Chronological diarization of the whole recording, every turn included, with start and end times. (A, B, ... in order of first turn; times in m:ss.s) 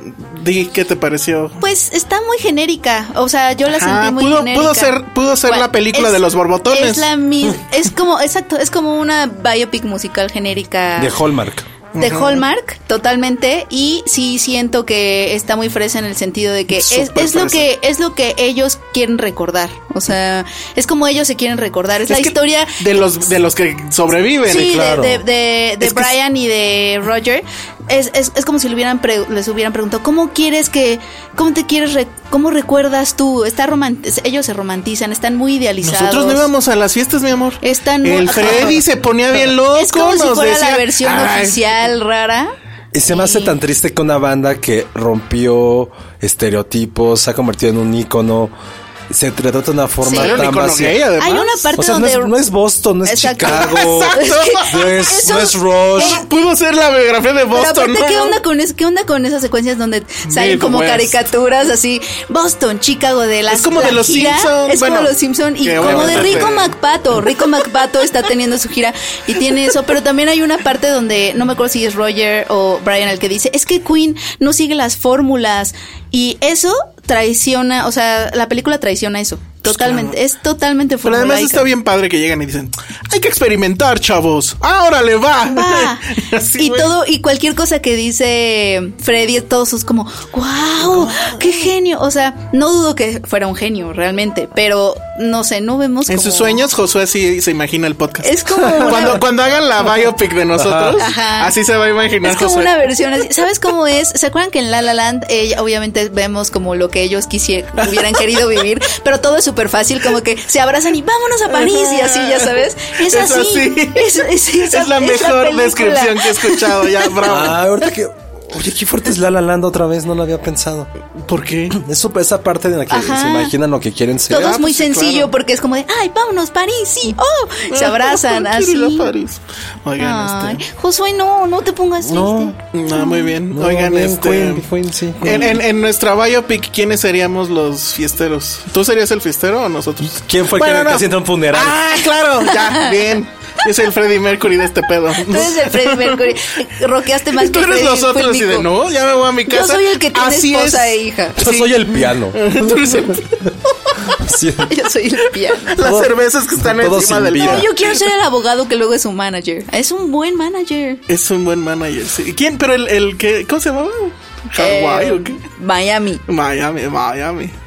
0:00.2-0:01.6 A
0:01.6-0:11.2 B
0:03.7-0:07.1 A
0:11.0-0:11.7 C
0:11.9-0:12.4 A
0:12.0-0:23.1 B
0:16.7-0:17.7 A
0:22.1-0:24.7 A
0:24.5-0:36.5 B
0:24.5-0:25.2 C
0:25.8-0:26.1 A
0:35.8-0:41.7 A
0:37.6-0:38.8 B
0:39.7-0:42.5 B
0:42.9-0:48.5 C
0:43.1-0:43.5 B
0:49.1-0:51.1 C
0:50.0-0:50.4 B
0:50.1-0:51.7 A
0:51.2-0:52.4 B
0:51.8-0:56.2 C
0:53.0-0:56.2 B
0:53.4-0:54.9 A
0:56.0-0:58.4 A
0:57.5-1:21.7 B
1:00.2-1:01.2 A
1:03.5-1:06.7 A
1:05.8-1:06.5 C
1:19.6-1:20.2 A
1:21.0-1:26.9 A
1:25.5-1:36.6 B
1:30.8-1:31.7 A
1:36.1-1:42.7 A
1:38.2-1:39.2 B
1:38.6-1:39.1 C
1:40.6-1:41.0 C
1:41.0-1:41.5 B
1:42.2-1:57.1 B
1:47.8-1:48.4 A
1:51.5-1:57.6 A
1:57.2-2:00.9 C
2:01.3-2:01.8 A
2:01.7-2:04.6 C
2:02.9-2:03.5 B
2:04.3-2:09.1 B
2:04.4-2:05.3 A
2:07.7-2:10.6 A
2:10.0-2:13.4 B
2:12.0-2:12.6 C
2:12.7-2:14.7 A
2:13.5-2:15.6 C
2:15.2-2:26.4 A
2:20.0-2:21.8 C
2:22.5-2:22.9 B
2:25.2-2:28.7 B
2:27.3-2:34.0 A
2:29.5-2:31.6 B
2:31.4-2:32.9 C
2:34.2-2:34.7 C
2:34.6-2:35.8 B
2:35.6-2:37.9 A
2:35.8-2:37.7 C
2:37.4-2:41.0 B
2:41.1-2:45.4 A
2:44.6-2:46.2 B
2:46.3-2:47.5 A